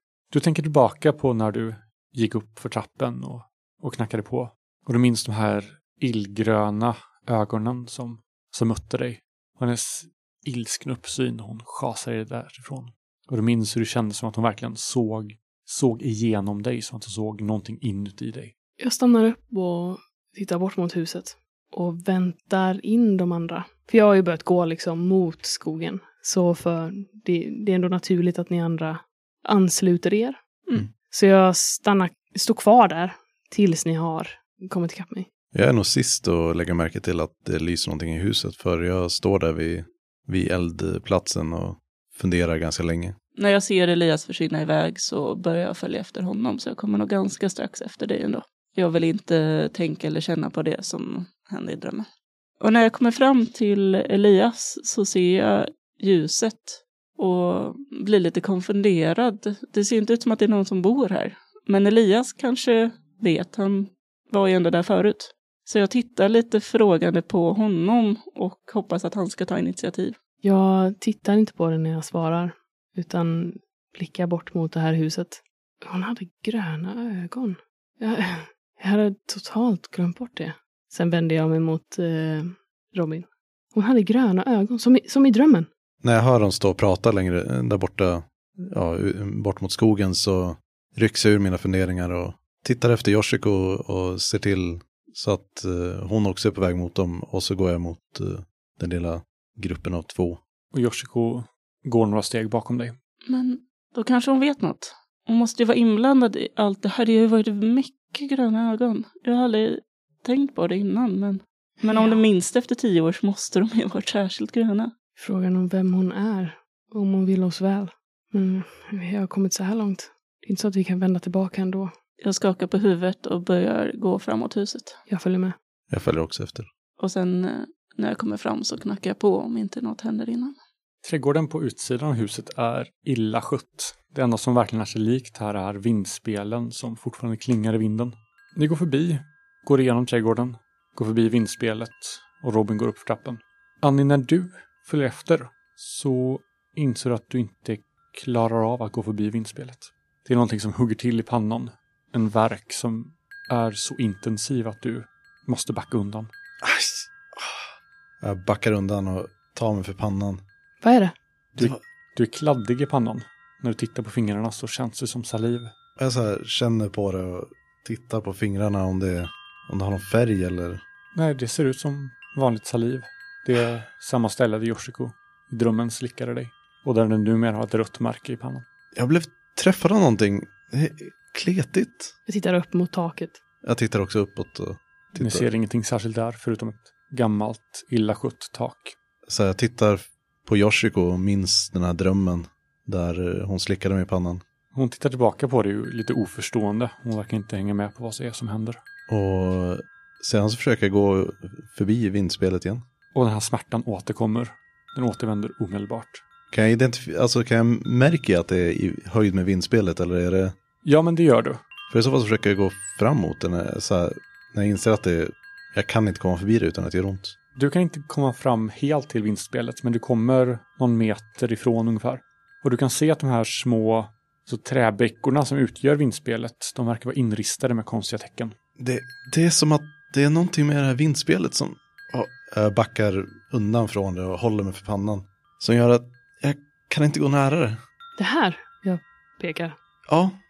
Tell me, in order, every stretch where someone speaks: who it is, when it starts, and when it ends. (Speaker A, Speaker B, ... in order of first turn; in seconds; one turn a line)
Speaker A: 0.3-18.5
Speaker B: 18.8-30.4
Speaker B: 31.1-35.3
Speaker C: 35.5-43.1
Speaker D: 43.4-52.1
Speaker D: 52.6-70.2
Speaker B: 70.4-85.7
Speaker C: 86.0-100.4
Speaker A: 100.7-103.0
Speaker D: 103.3-114.9
Speaker B: 111.8-112.2
Speaker B: 115.2-121.9
Speaker D: 122.2-125.0
Speaker B: 125.1-125.5
Speaker C: 125.9-126.7
Speaker D: 127.0-130.6
Speaker A: 131.0-156.3
Speaker C: 156.6-157.7
Speaker C: 158.2-160.4
Speaker B: 160.8-161.1
Speaker A: 161.6-165.7
Speaker C: 166.0-170.8
Speaker A: 171.1-178.6
Speaker C: 178.9-182.1
Speaker B: 182.3-183.4
Speaker C: 183.6-185.5
Speaker A: 185.2-189.0
Speaker C: 189.3-194.4
Speaker A: 194.7-198.8
Speaker C: 199.1-202.8
Speaker A: 203.1-206.2
Speaker C: 206.5-210.5
Speaker A: 210.8-211.6
Speaker C: 211.9-217.4
Speaker A: 217.6-228.5
Speaker C: 228.8-237.8
Speaker B: 238.2-239.8
Speaker C: 240.1-240.4